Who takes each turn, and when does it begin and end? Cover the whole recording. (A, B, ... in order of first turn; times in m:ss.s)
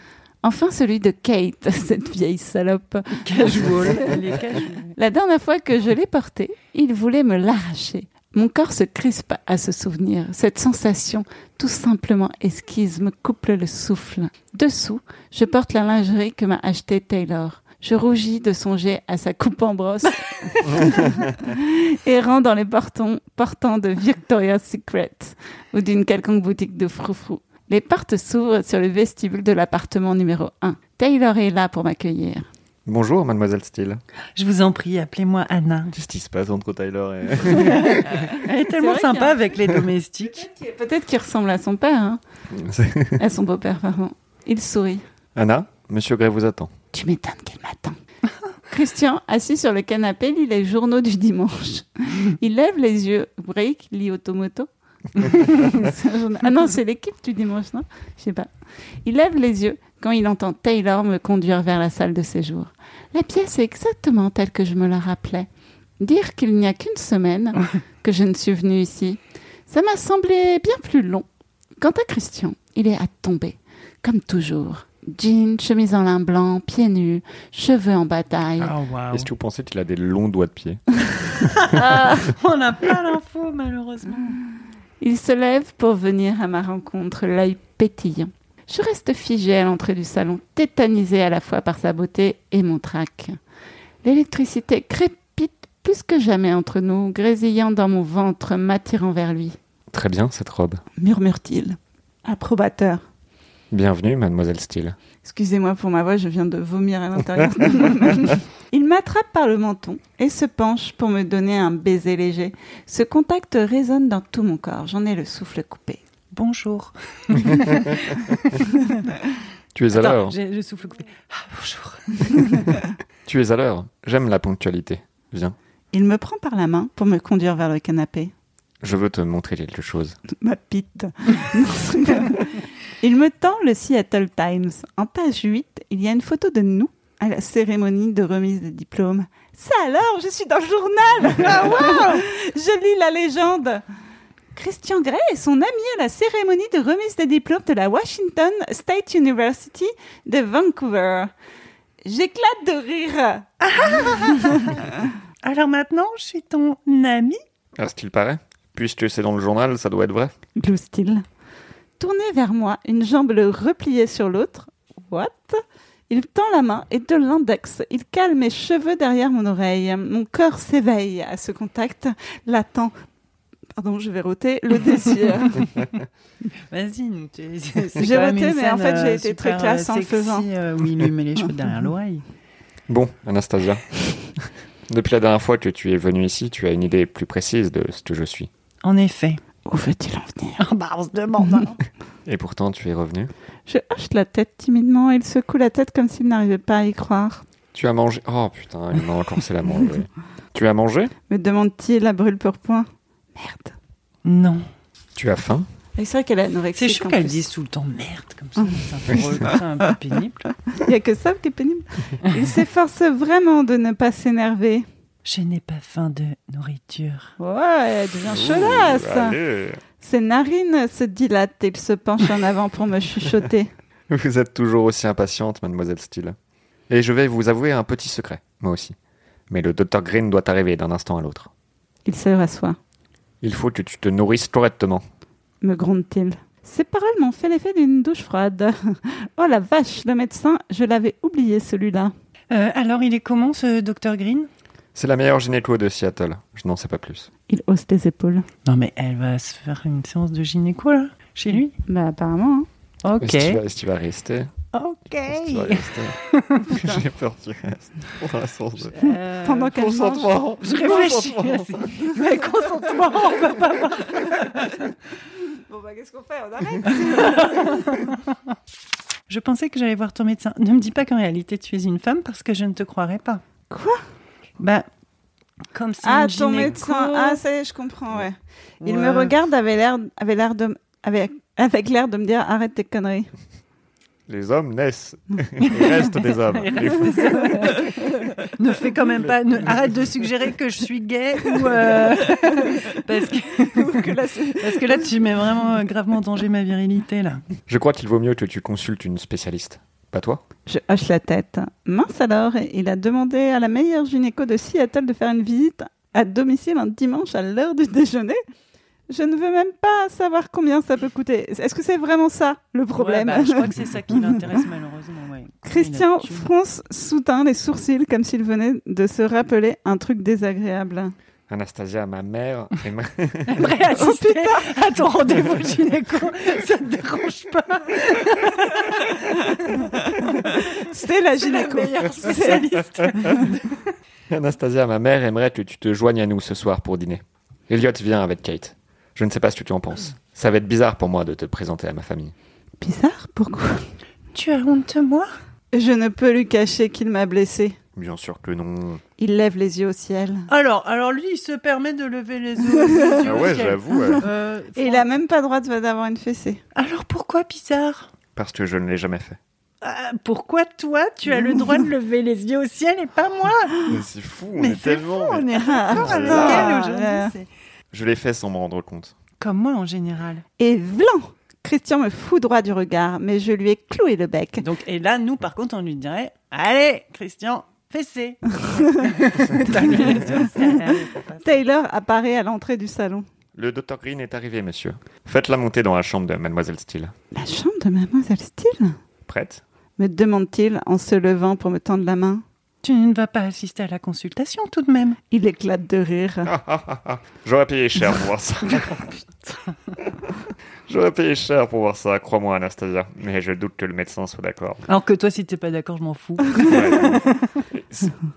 0:00.4-0:04.2 A
0:03.2-0:05.0 B
0:05.0-0:32.5 A
0:32.8-0:34.0 C
0:34.3-0:35.9 B
0:35.9-0:38.2 C
0:37.5-0:40.5 B
0:38.7-0:39.4 A
0:40.2-0:42.2 A
0:42.6-0:43.2 C
0:43.2-0:45.0 A
0:45.4-0:46.7 C
0:46.9-0:48.0 A
0:48.7-0:58.5 A
0:59.0-1:05.5 A
1:06.0-1:11.2 A
1:11.8-1:18.7 A
1:18.6-1:19.3 B
1:19.1-1:21.8 C
1:21.6-1:24.4 B
1:21.7-1:22.2 A
1:25.0-1:33.4 A
1:34.0-1:39.6 A
1:39.9-1:40.8 C
1:41.0-1:43.0 A
1:43.7-1:45.0 C
1:45.2-1:56.0 A
1:56.3-1:58.6 B
1:59.7-2:00.3 C
1:59.9-2:02.5 B
2:03.2-2:05.5 C
2:05.9-2:08.3 A
2:08.8-2:10.2 C
2:10.3-2:23.8 A
2:21.3-2:22.2 B
2:24.5-2:31.3 A
2:32.0-2:34.8 A
2:33.6-2:34.8 B
2:35.4-2:37.4 B
2:37.8-2:40.3 C
2:40.6-2:41.2 A
2:42.0-2:52.9 A
2:53.8-2:55.7 A
2:56.7-3:02.2 B
2:58.0-3:00.5 A
3:02.9-3:04.0 C
3:04.9-3:08.5 C
3:08.8-3:09.4 B
3:09.7-3:10.6 A
3:10.6-3:11.8 B
3:12.2-3:13.3 C
3:13.7-3:17.4 A
3:17.7-3:21.1 C
3:21.3-3:23.7 A
3:24.2-3:24.6 B
3:25.2-3:25.7 C
3:26.0-3:27.5 A
3:26.7-3:30.4 B
3:28.6-3:29.2 A
3:30.7-3:34.8 A
3:35.2-3:37.3 B
3:37.4-3:39.4 A
3:38.2-3:39.8 C
3:40.0-3:43.7 A
3:44.1-3:46.3 C
3:46.9-3:48.9 C
3:49.5-3:51.5 C
3:52.0-3:52.8 A
3:53.4-3:55.0 C
3:55.6-4:02.1 A
4:02.5-4:04.5 B
4:04.9-4:07.3 C
4:07.5-4:08.4 A
4:08.6-4:11.7 B
4:11.9-4:12.7 A
4:13.0-4:13.6 B
4:13.2-4:14.5 C
4:14.7-4:16.6 B
4:15.3-4:16.2 C
4:16.6-4:17.0 A
4:16.7-4:22.1 C
4:18.9-4:19.7 B
4:19.4-4:21.1 A
4:20.6-4:24.9 B
4:24.1-4:24.5 A
4:25.4-4:28.0 A
4:26.9-4:28.4 B
4:29.3-4:33.4 B
4:33.7-4:34.0 A
4:34.6-4:34.9 B
4:35.7-4:37.4 B
4:36.0-4:43.3 A
4:38.8-4:39.4 B
4:44.3-4:47.3 C
4:45.6-4:57.4 B
4:47.4-4:48.2 A
4:51.6-4:53.0 A
4:53.5-4:55.1 A
4:57.7-5:00.4 C
5:00.7-5:08.4 A
5:09.1-5:14.4 A
5:12.9-5:16.5 B
5:15.6-5:21.1 A
5:21.5-5:23.7 C
5:23.4-5:30.6 B
5:23.9-5:24.7 A
5:29.7-5:33.4 A
5:31.3-5:33.9 B
5:34.3-5:42.3 C
5:42.8-5:43.8 A
5:44.3-5:45.3 B
5:45.7-5:47.8 A
5:47.9-5:49.0 C
5:49.2-5:50.5 A
5:50.5-5:55.1 B
5:52.9-5:53.2 A
5:53.2-5:54.2 C
5:54.8-5:56.6 A
5:56.7-5:58.1 B
5:58.3-5:59.4 C
5:59.8-6:03.8 B
6:03.8-6:06.7 C
6:04.6-6:07.5 B
6:05.6-6:07.3 A
6:07.9-6:09.1 C
6:09.4-6:10.4 B
6:10.6-6:14.6 A
6:14.6-6:21.6 B
6:19.6-6:20.8 A
6:21.4-6:23.2 A
6:23.5-6:27.1 C
6:27.3-6:29.0 A
6:29.2-6:29.6 C
6:30.0-6:32.4 A
6:32.8-6:35.2 B
6:35.3-6:36.5 A
6:36.4-6:39.1 C
6:39.1-6:39.8 B
6:40.9-6:44.8 C
6:44.9-6:47.6 B
6:46.6-6:48.1 C